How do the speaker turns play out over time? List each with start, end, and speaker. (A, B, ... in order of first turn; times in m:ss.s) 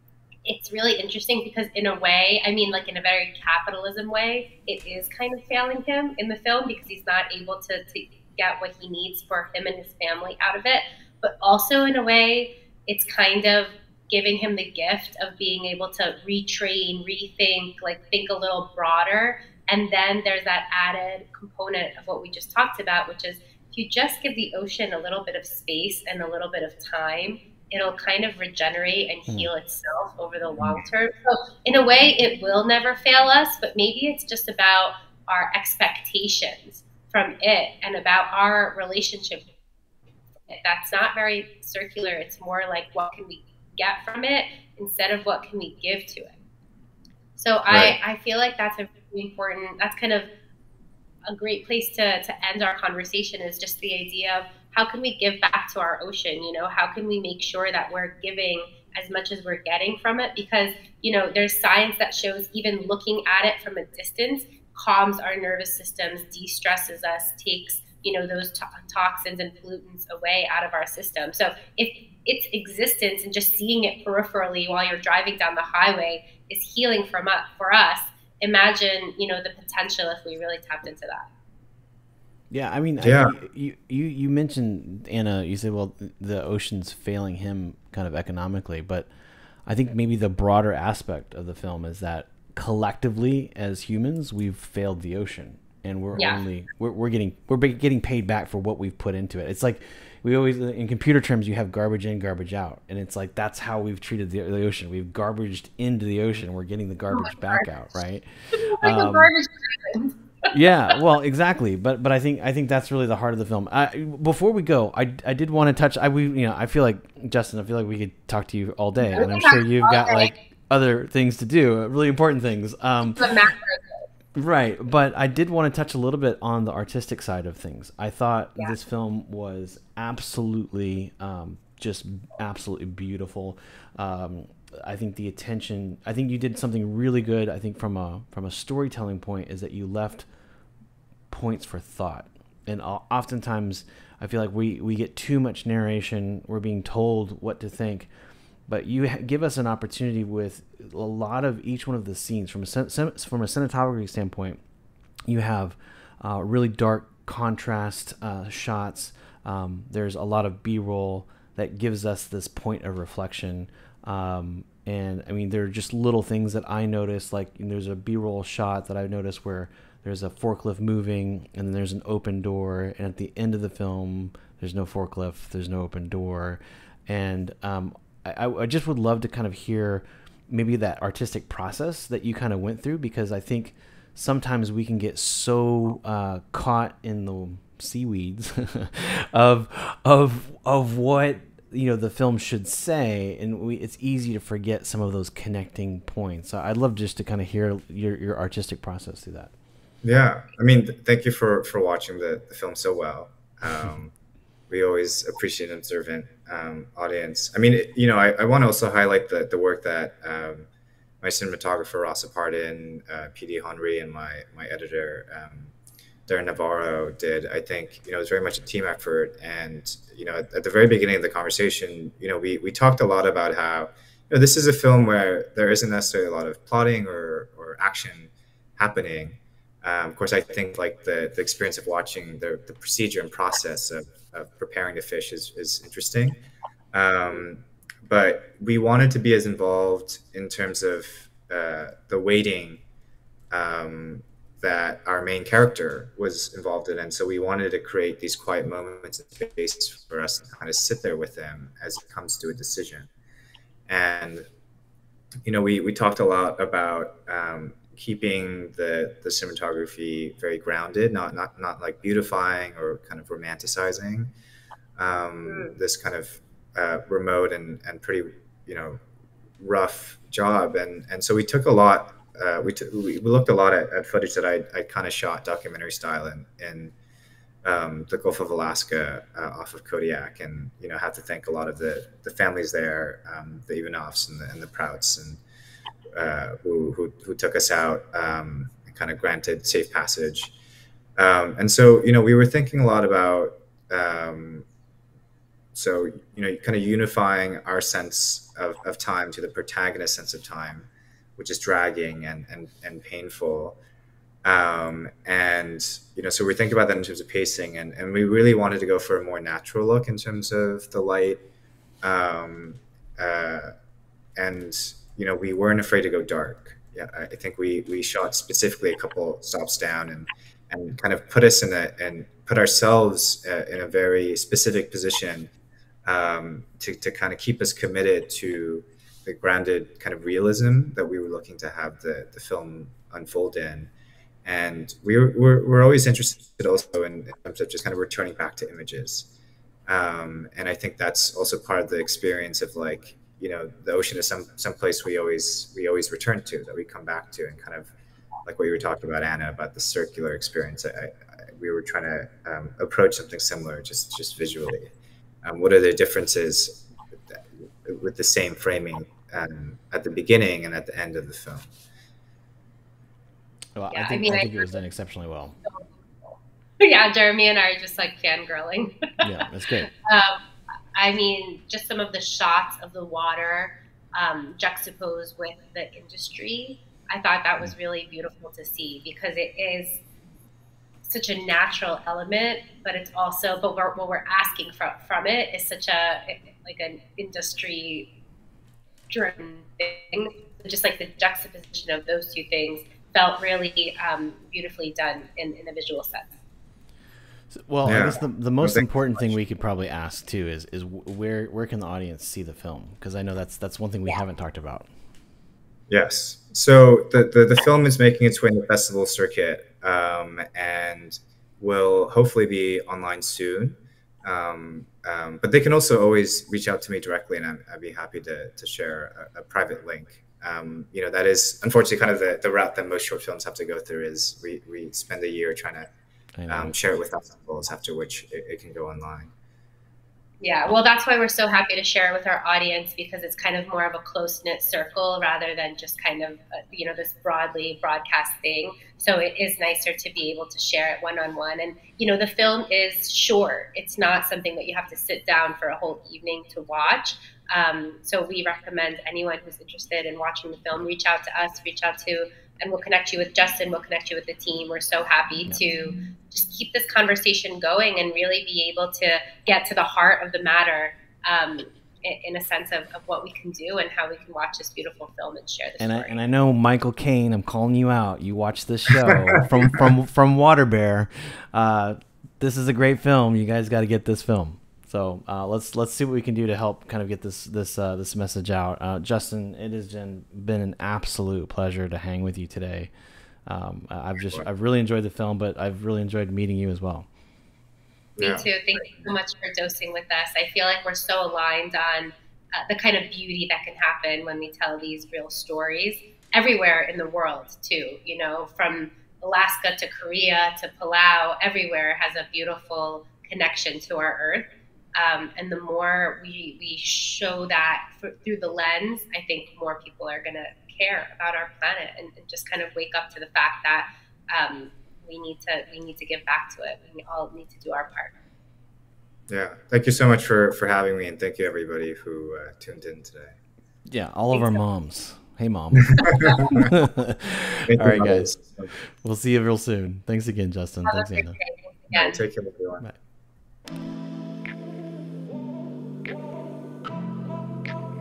0:00.5-0:39.5 A
0:40.5-0:46.3 A
0:47.4-0:50.3 A
0:47.7-0:48.0 B
0:51.3-1:21.3 A
1:22.5-1:29.1 C
1:23.0-1:23.4 B
1:29.7-1:49.3 C
1:36.2-1:36.4 A
1:47.2-1:47.7 A
1:48.5-1:50.5 A
1:50.5-2:03.3 C
1:59.2-2:00.3 A
2:03.2-2:04.0 A
2:04.4-2:20.3 C
2:21.3-2:28.1 C
2:28.7-2:34.6 C
2:35.3-3:19.5 C
3:20.0-3:24.1 B
3:24.7-3:30.7 B
3:31.2-3:35.7 B
3:36.3-3:56.4 B
3:56.9-4:02.8 B
4:03.5-4:13.1 B
4:13.9-4:14.5 B
4:15.4-4:24.3 B
4:25.0-4:29.0 B
4:25.5-4:25.7 A
4:29.6-4:36.9 B
4:37.6-4:45.4 B
4:46.2-4:50.5 B
4:51.2-4:54.7 B
4:55.7-5:03.8 B
5:04.4-5:11.4 B
5:12.0-5:13.7 B
5:14.4-5:25.5 B
5:26.1-5:33.9 B
5:34.4-5:39.3 B
5:39.9-5:47.9 B
5:48.4-5:54.9 B
5:55.4-5:56.8 B
5:57.8-6:01.7 B
6:03.8-6:05.6 C
6:03.9-6:04.7 A
6:05.7-6:09.2 A
6:09.2-6:09.9 C
6:10.0-6:10.4 A
6:11.0-6:20.0 A
6:21.1-6:28.1 A
6:29.1-6:36.4 A
6:37.5-6:44.9 C
6:37.8-6:39.3 B
6:45.9-7:05.9 B
7:06.4-7:06.8 C
7:06.5-7:09.3 B
7:10.4-7:46.2 A
7:45.8-8:02.9 C
8:03.5-8:07.1 C
8:08.2-8:09.1 B
8:08.2-8:38.1 A
8:39.3-8:43.4 B
8:43.9-8:51.4 C
8:44.3-8:44.6 A
8:45.9-8:46.7 B
8:47.6-8:48.7 B
8:50.9-8:52.2 A
8:51.9-8:52.9 B